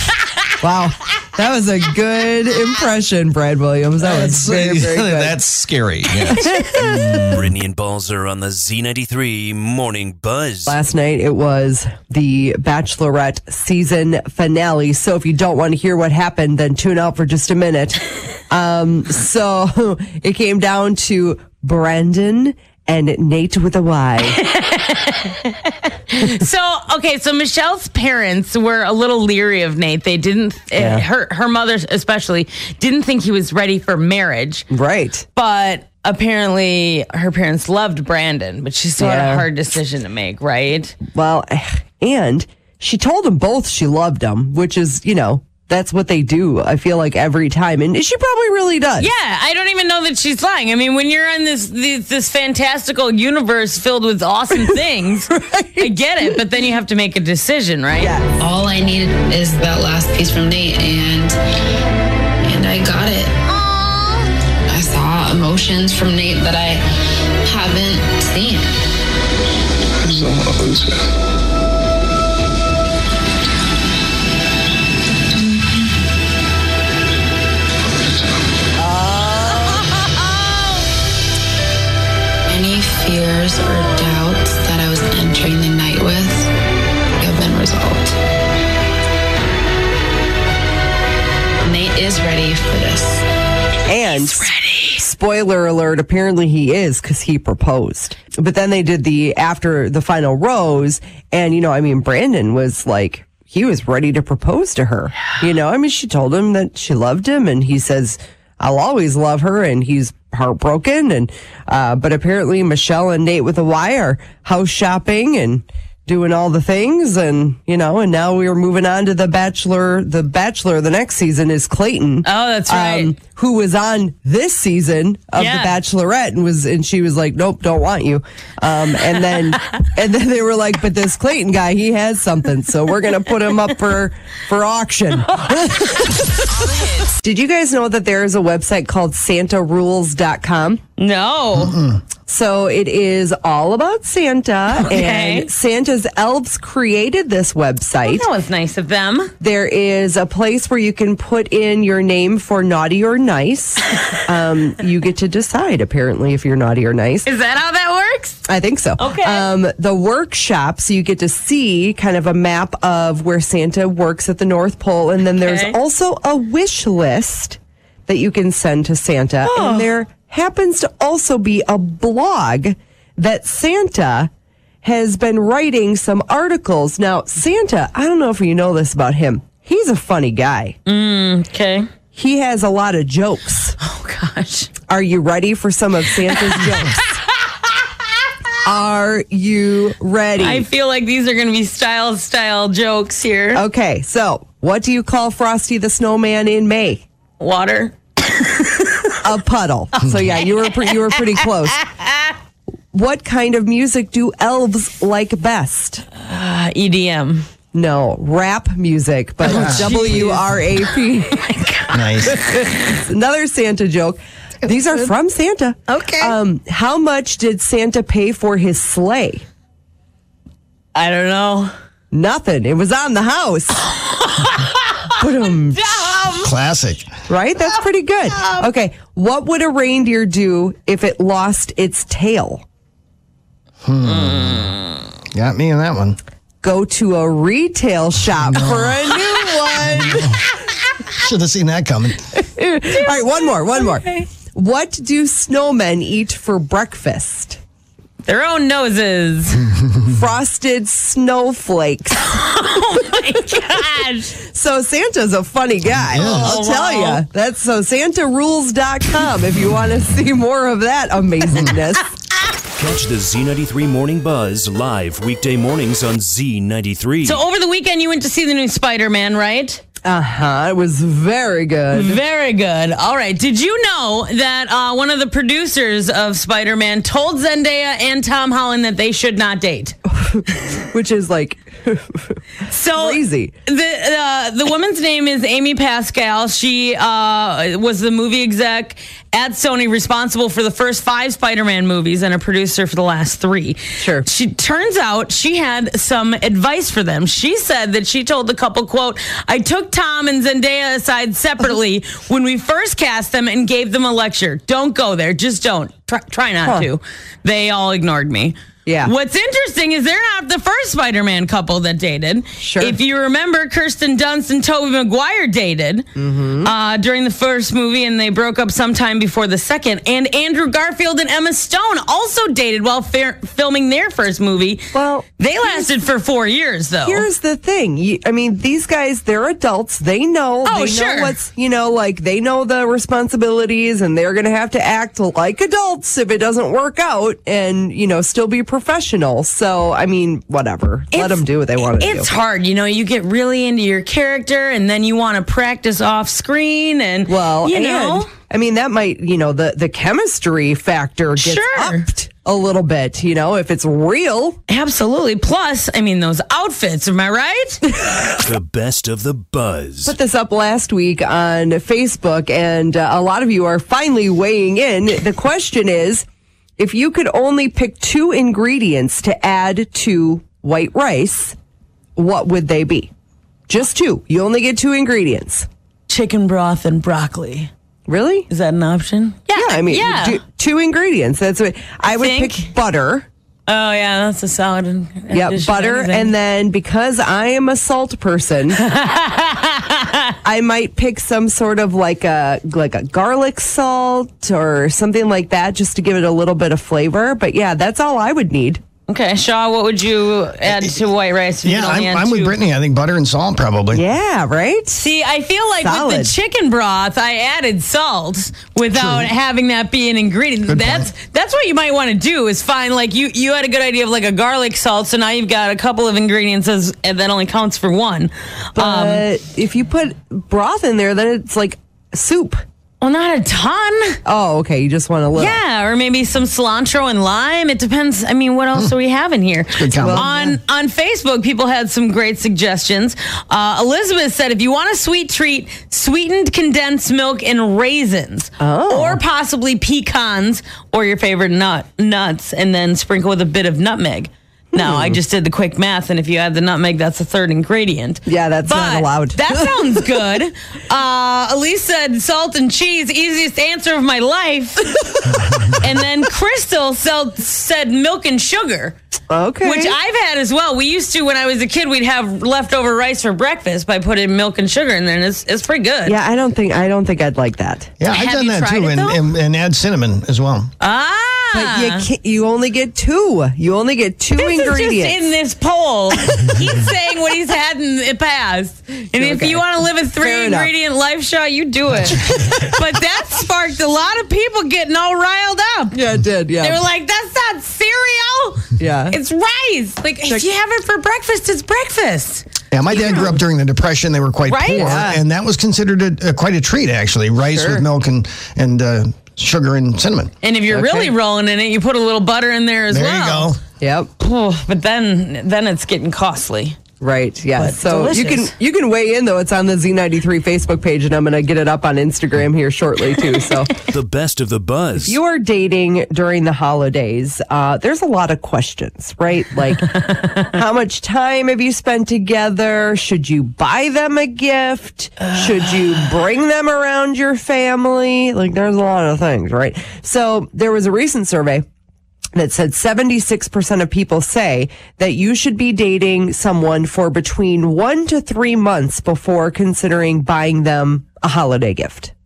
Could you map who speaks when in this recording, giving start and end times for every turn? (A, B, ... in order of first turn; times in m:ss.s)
0:00.6-0:05.4 A
0:04.0-0:07.4 B
0:06.2-0:07.4 A
0:06.9-0:10.8 C
0:10.7-0:24.4 A
0:24.3-0:34.7 D
0:30.8-0:31.0 A
0:34.7-0:35.2 A
0:35.4-0:41.0 D
0:39.0-0:39.4 A
0:41.1-0:49.1 A
0:49.0-0:58.1 D
0:55.3-0:55.9 A
0:58.0-0:58.3 A
0:58.4-1:01.4 E
1:02.4-1:03.4 E
1:03.5-1:04.3 D
1:04.7-1:06.8 E
1:07.4-1:08.7 E
1:10.0-1:11.0 B
1:15.3-1:15.8 E
1:19.3-1:20.7 D
1:22.5-1:26.5 E
1:27.2-1:28.2 E
1:31.6-1:33.2 E
1:33.9-2:20.8 A
1:34.0-1:35.0 D
2:02.2-2:03.1 D
2:05.4-2:05.8 D
2:21.0-2:21.8 D
2:22.2-2:28.3 A
2:24.7-2:25.5 D
2:28.0-2:29.3 D
2:29.4-2:37.3 A
2:37.2-2:38.4 D
2:38.5-2:54.3 A
2:39.0-2:39.5 D
2:45.4-2:45.8 D
2:49.4-2:49.9 D
2:54.8-3:00.8 A
3:00.8-3:01.9 D
3:02.1-3:03.7 A
3:03.8-3:04.7 D
3:04.9-3:07.1 A
3:06.3-3:07.7 D
3:08.6-3:10.7 A
3:10.4-3:13.6 D
3:13.5-3:17.0 A
3:17.4-3:18.9 D
3:19.2-3:21.9 A
3:21.9-3:22.3 D
3:22.9-3:26.0 A
3:26.1-3:27.4 D
3:27.7-3:31.4 A
3:29.4-3:30.5 D
3:29.4-3:30.4 F
3:31.3-3:32.8 D
3:31.9-3:32.6 F
3:32.8-3:39.4 A
3:35.9-3:36.4 D
3:40.9-3:41.7 D
3:42.1-3:43.8 A
3:43.9-3:46.5 D
3:45.2-3:46.2 A
3:46.4-3:47.1 F
3:47.3-3:52.6 A
3:48.3-3:48.7 D
3:53.8-3:54.7 F
3:54.0-3:55.0 D
3:55.3-3:56.2 F
3:56.6-4:00.4 A
3:58.4-3:59.2 F
3:59.9-4:00.4 F
4:01.2-4:02.3 F
4:02.5-4:07.6 A
4:02.9-4:04.3 D
4:08.2-4:09.7 D
4:10.0-4:12.4 A
4:12.2-4:14.3 D
4:14.4-4:22.1 A
4:16.0-4:16.6 F
4:16.1-4:17.2 D
4:22.8-4:27.4 C
4:27.2-4:29.8 D
4:30.0-4:32.2 A
4:31.9-4:39.9 D
4:40.1-4:42.4 A
4:42.7-5:16.1 D
4:42.9-4:43.5 A
4:54.0-4:54.2 A
5:08.8-5:09.1 A
5:12.6-5:13.0 A
5:16.2-5:16.7 A
5:16.6-5:27.2 D
5:24.9-5:25.9 A
5:27.0-5:42.3 A
5:30.6-5:31.4 D
5:41.1-5:48.3 D
5:47.3-5:54.6 A
5:51.4-5:52.0 D
5:54.7-5:58.0 D
5:58.4-6:00.1 C
6:00.0-6:06.2 A
6:06.8-6:11.5 A
6:12.2-6:13.1 A
6:13.7-6:15.7 A
6:16.1-6:17.7 D
6:18.1-6:18.5 A
6:18.5-6:20.4 D
6:19.5-6:23.3 A
6:22.1-6:22.6 D
6:23.7-6:26.3 D
6:25.3-6:28.8 A
6:28.8-6:30.4 D
6:30.4-6:38.8 A
6:39.1-6:42.5 D
6:40.7-6:41.0 F
6:41.6-6:44.0 F
6:43.9-6:45.0 A
6:44.9-6:59.2 D
6:45.8-6:46.3 A
6:48.9-6:49.3 F
6:50.7-6:51.1 F
6:58.8-7:02.6 A
7:03.0-7:04.2 D
7:04.2-7:05.6 A
7:05.4-7:34.9 D
7:09.7-7:10.3 F
7:10.0-7:10.6 A
7:18.6-7:19.2 A
7:24.7-7:25.2 A
7:28.3-7:30.0 A
7:35.6-7:39.0 D
7:39.3-7:40.0 A
7:39.6-7:46.2 D
7:46.0-7:47.9 A
7:48.0-7:50.7 F
7:48.1-7:49.2 D
7:50.8-7:52.1 D
7:51.5-7:55.3 A
7:54.4-8:06.0 D
7:59.2-7:59.6 A
8:00.2-8:00.7 A
8:02.0-8:02.8 A
8:05.9-8:06.8 A
8:06.6-8:13.4 D
8:08.8-8:09.2 A
8:12.7-8:20.3 F
8:14.5-8:15.0 D
8:14.8-8:15.2 A
8:17.5-8:17.8 A
8:20.4-8:23.5 D
8:20.7-8:21.1 A
8:22.9-8:23.6 F
8:23.8-8:24.1 A
8:24.2-8:26.8 D
8:27.0-8:33.8 A
8:27.6-8:28.5 D
8:33.8-8:35.2 C
8:35.0-8:51.6 A
8:52.3-9:02.1 A